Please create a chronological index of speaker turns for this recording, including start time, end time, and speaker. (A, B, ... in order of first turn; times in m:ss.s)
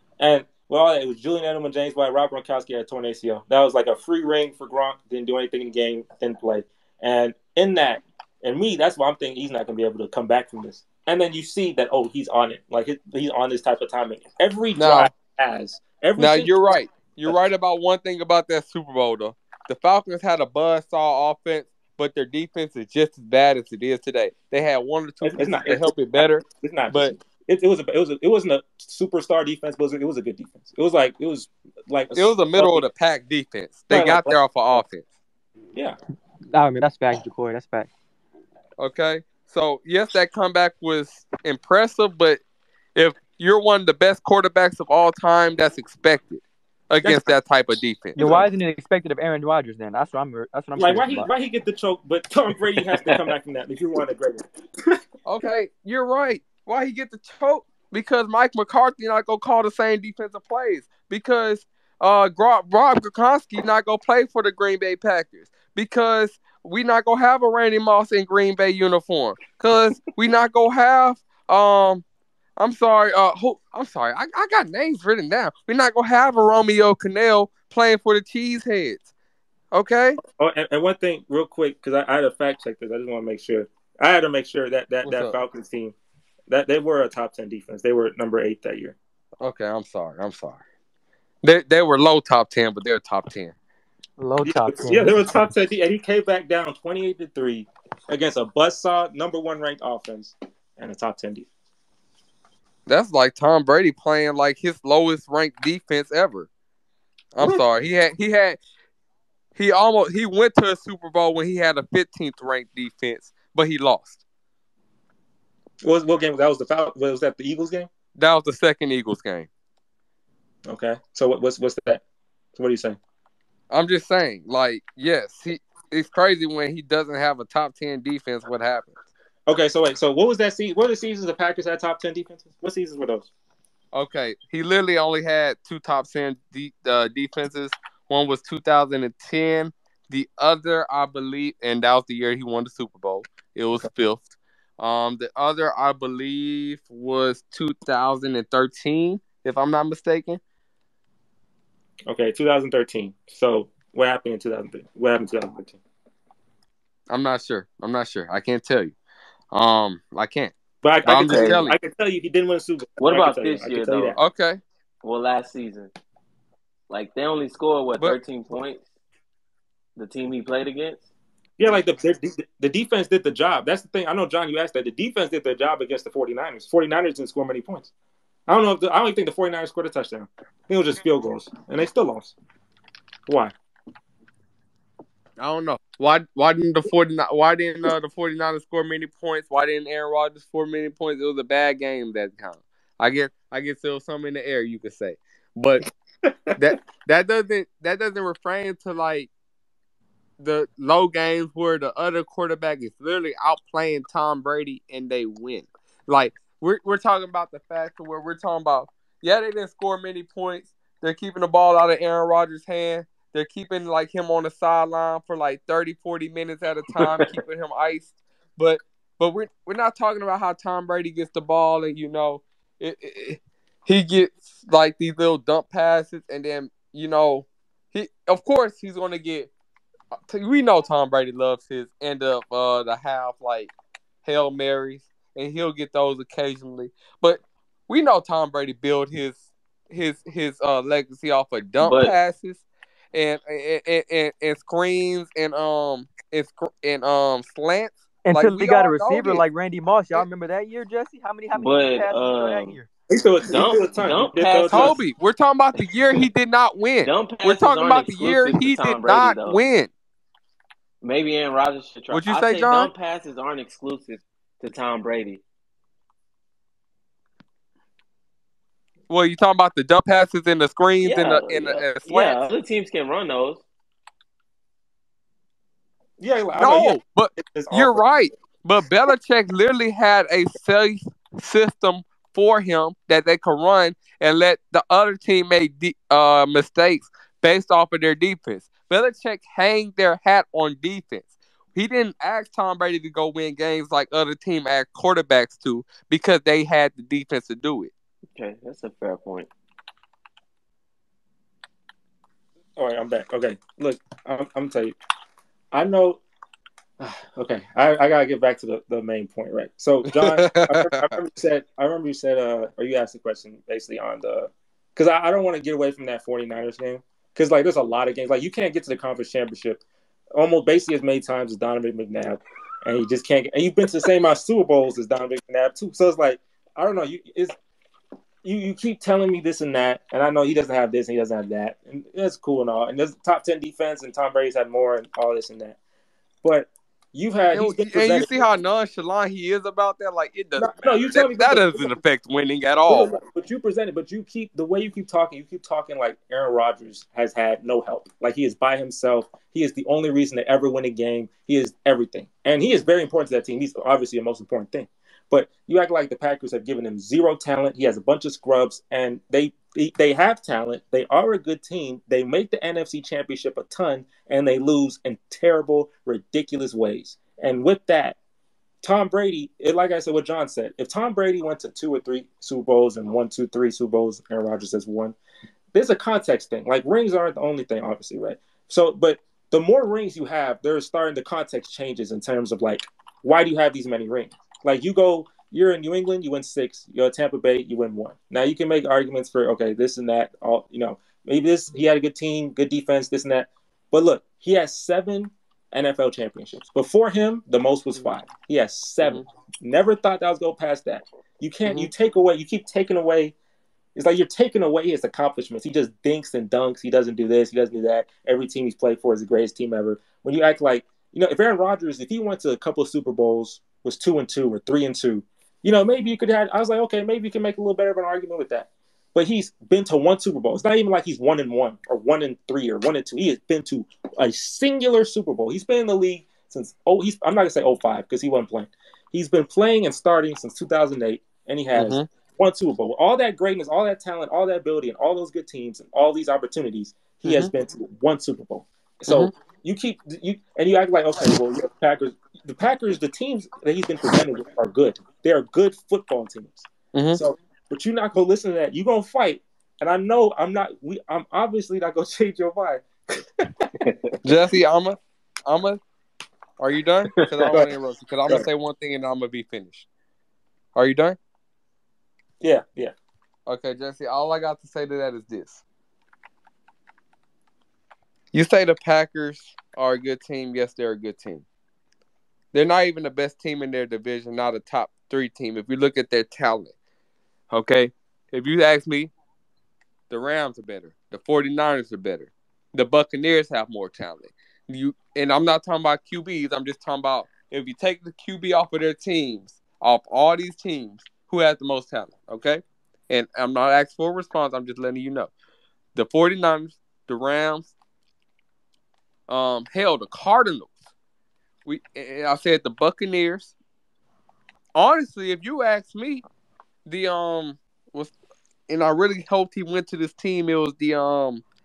0:00.2-0:16.7 A
0:14.8-0:15.1 B
0:16.2-0:27.1 B
0:25.2-0:32.8 A
0:32.1-0:35.0 B
0:33.9-0:34.8 A
0:36.5-0:37.9 C
0:38.8-0:42.4 B
0:42.9-0:48.2 B
0:47.0-0:47.3 A
0:48.2-0:48.5 A
0:48.2-0:51.3 C
0:50.8-0:55.0 A
0:55.2-1:12.0 B
1:12.6-1:19.1 B
1:19.7-1:20.2 B
1:20.2-1:25.9 A
1:25.0-1:25.4 B
1:26.5-1:29.0 A
1:29.4-1:30.6 B
1:31.4-1:33.5 B
1:34.2-1:35.2 C
1:34.4-1:41.5 A
1:42.8-1:46.5 B
1:47.3-1:48.6 B
1:49.5-1:54.2 B
1:55.8-1:57.9 A
1:58.2-1:59.5 B
2:00.7-2:02.0 A
2:02.5-2:03.0 A
2:03.7-2:09.0 B
2:09.5-2:13.3 A
2:13.9-2:30.4 B
2:32.1-2:35.8 A
2:37.1-2:38.9 B
2:39.5-2:41.8 B
2:40.8-2:44.2 A
2:41.2-2:41.6 D
2:43.0-2:44.2 D
2:44.2-2:44.6 B
2:45.0-2:45.9 D
2:46.9-2:48.8 D
2:50.0-2:51.1 D
2:51.6-2:57.9 A
2:58.5-3:02.3 A
3:03.3-3:03.5 A
3:05.4-3:15.8 B
3:16.2-3:16.7 A
3:16.5-3:19.3 B
3:20.4-3:49.5 B
3:50.3-3:53.7 B
3:54.2-4:02.6 B
4:01.8-4:02.1 D
4:03.1-4:09.4 B
4:08.2-4:12.9 C
4:11.5-4:12.7 D
4:13.1-4:15.0 A
4:13.5-4:15.0 D
4:14.7-4:19.9 B
4:15.8-4:16.2 D
4:17.0-4:19.6 D
4:21.0-4:25.4 D
4:22.1-4:22.9 B
4:29.1-4:32.5 B
4:31.0-4:33.6 D
4:36.2-4:38.3 A
4:36.6-4:57.9 B
4:58.4-4:59.5 D
5:02.8-5:05.0 A
5:05.7-5:06.2 A
5:07.0-5:19.8 A
5:10.1-5:11.2 B
5:20.3-5:27.6 A
5:28.4-5:35.8 A
5:36.4-5:38.4 A
5:37.5-5:43.1 B
5:40.6-5:42.0 A
5:42.9-6:08.2 A
6:08.8-6:15.2 A
6:15.7-6:43.3 A
6:41.6-6:41.9 B
6:43.9-7:33.7 A
7:11.7-7:12.1 B
7:17.2-7:17.5 B
7:26.9-7:27.2 B
7:33.8-7:34.1 D
7:34.2-7:35.8 B
7:36.6-7:39.8 B
7:40.7-7:41.2 B
7:42.4-7:42.9 A
7:43.5-7:45.6 B
7:48.3-7:51.4 B
7:52.5-7:56.7 B
7:57.5-7:59.1 B
8:00.1-8:15.3 B
8:15.9-8:17.7 B
8:19.3-8:20.8 B
8:21.6-8:23.5 B
8:24.7-8:26.2 B
8:26.8-8:28.1 B
8:28.7-8:31.4 B